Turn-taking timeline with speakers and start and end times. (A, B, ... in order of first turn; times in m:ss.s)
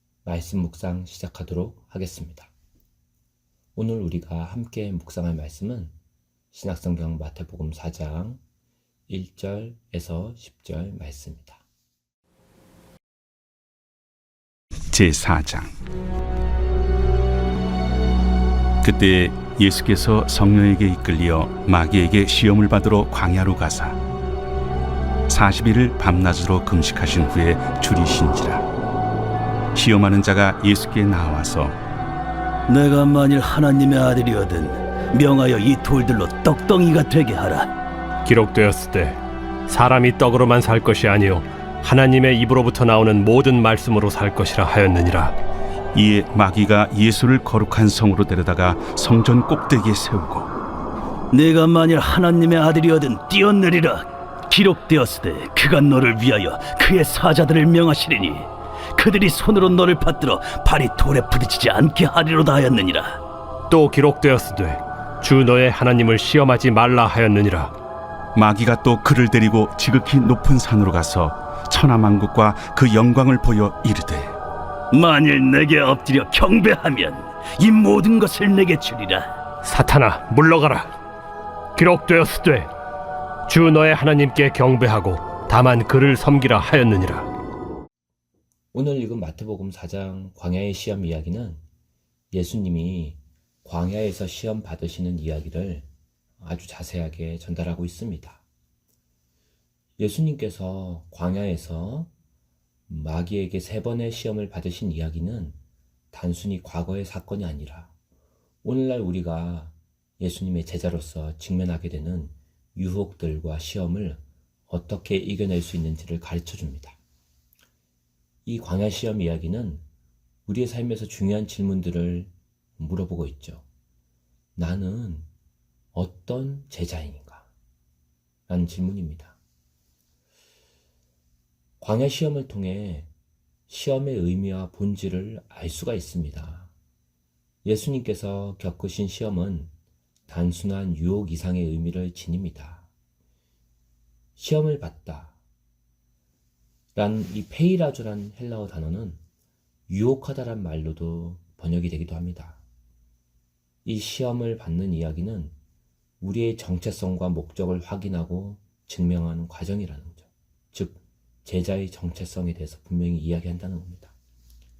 0:00.2-0:02.5 A
0:03.8-0:05.9 A
0:06.5-0:08.4 A
0:09.1-0:11.6 A
0:14.9-0:15.7 B
0:18.8-0:24.0 B
0:25.3-0:28.7 B
0:29.7-0:31.7 B
0:32.7-0:37.7 C
0:38.2-0:45.3 D
0:45.9-0:50.5 B
0:51.3-1:03.2 C
1:03.7-1:07.7 D
1:08.3-1:14.3 B
1:14.9-1:19.3 C
1:19.6-1:20.9 D
1:21.8-1:22.7 D
1:23.5-1:27.3 D
1:28.7-1:31.6 A
1:32.3-1:35.9 A
1:36.4-1:38.4 A
1:40.0-1:42.1 A
1:42.9-1:45.6 A
1:46.1-1:47.9 A
1:48.6-1:57.0 A
1:58.4-1:59.8 A
2:00.4-2:03.6 A
2:04.6-2:05.3 A
2:05.9-2:07.5 A
2:08.5-2:09.4 A
2:11.8-2:13.1 A
2:13.7-2:16.7 A
2:17.6-2:19.7 A
2:20.3-2:22.9 A
2:24.4-2:25.4 A
2:26.9-2:29.2 A
2:29.9-2:32.6 A
2:33.8-2:35.5 A
2:36.2-2:44.1 A